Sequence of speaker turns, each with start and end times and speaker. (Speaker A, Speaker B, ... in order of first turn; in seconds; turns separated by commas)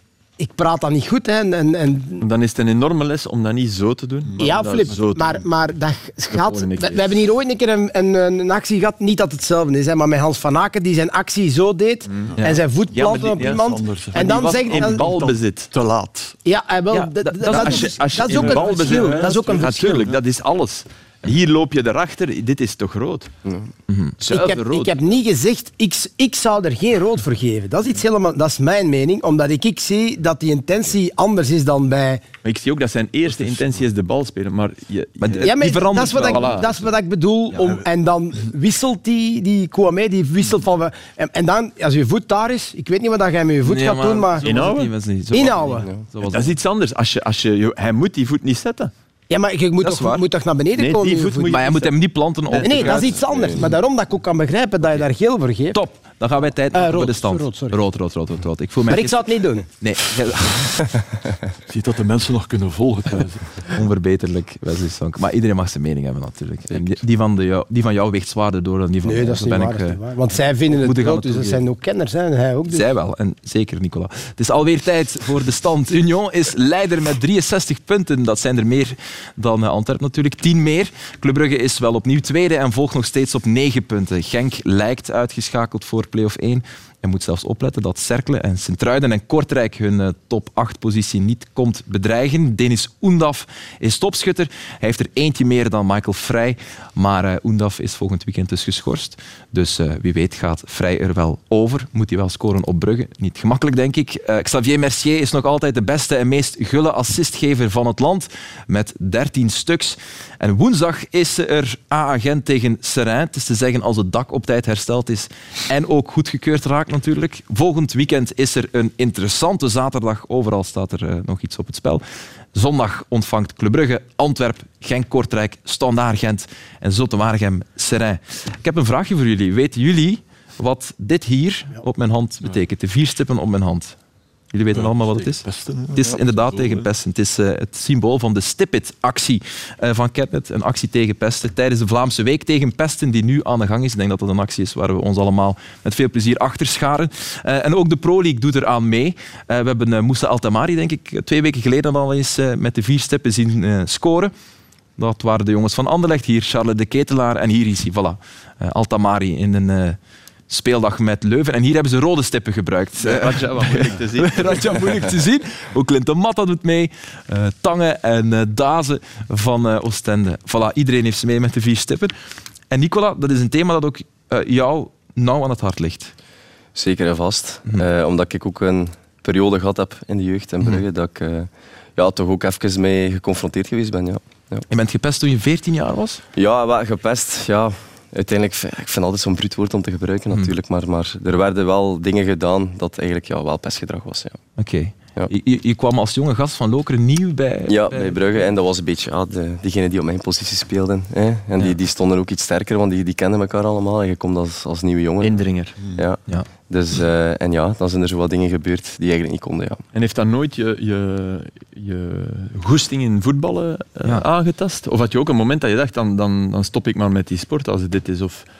Speaker A: 0.4-2.2, Speaker B: 2.2-5.4, Speaker C: 4.2-5.0, Speaker A: 4.4-15.3, Speaker B: 6.3-7.2, Speaker B: 12.1-12.3, Speaker C: 12.3-16.4, Speaker B: 12.9-13.6, Speaker B: 14.1-15.7, Speaker A: 16.4-20.1, Speaker D: 16.9-18.7, Speaker B: 17.5-23.3, Speaker C: 18.3-20.2, Speaker E: 23.4-23.7, Speaker D: 23.9-24.1, Speaker A: 24.2-32.2, Speaker B: 24.2-25.1, Speaker B: 32.4-35.5, Speaker C: 33.3-33.8, Speaker D: 35.2-36.9, Speaker A: 35.4-44.5, Speaker B: 36.2-36.8, Speaker D: 43.6-46.5, Speaker B: 44.4-44.9, Speaker A: 45.3-45.9, Speaker B: 46.2-48.9, Speaker A: 49.3-51.6, Speaker D: 49.8-50.2, Speaker B: 50.8-51.9, Speaker D: 51.5-53.6, Speaker A: 52.6-55.8, Speaker E: 53.0-53.6, Speaker D: 55.7-60.7, Speaker A: 56.7-57.8, Speaker A: 58.9-59.7, Speaker C: 61.7-63.6, Speaker D: 63.7-70.0, Speaker A: 69.0-72.8, Speaker D: 70.5-71.6, Speaker D: 72.7-134.0, Speaker D: 134.5-154.3, Speaker C: 134.7-136.9, Speaker D: 155.0-172.1, Speaker B: 163.0-164.8, Speaker D: 172.7-176.1, Speaker E: 176.7-184.7, Speaker D: 184.7-186.2, Speaker E: 186.3-194.4, Speaker D: 194.6-198.5, Speaker E: 197.7-209.8, Speaker B: 205.2-205.8, Speaker C: 205.8-206.0, Speaker B: 209.9-218.4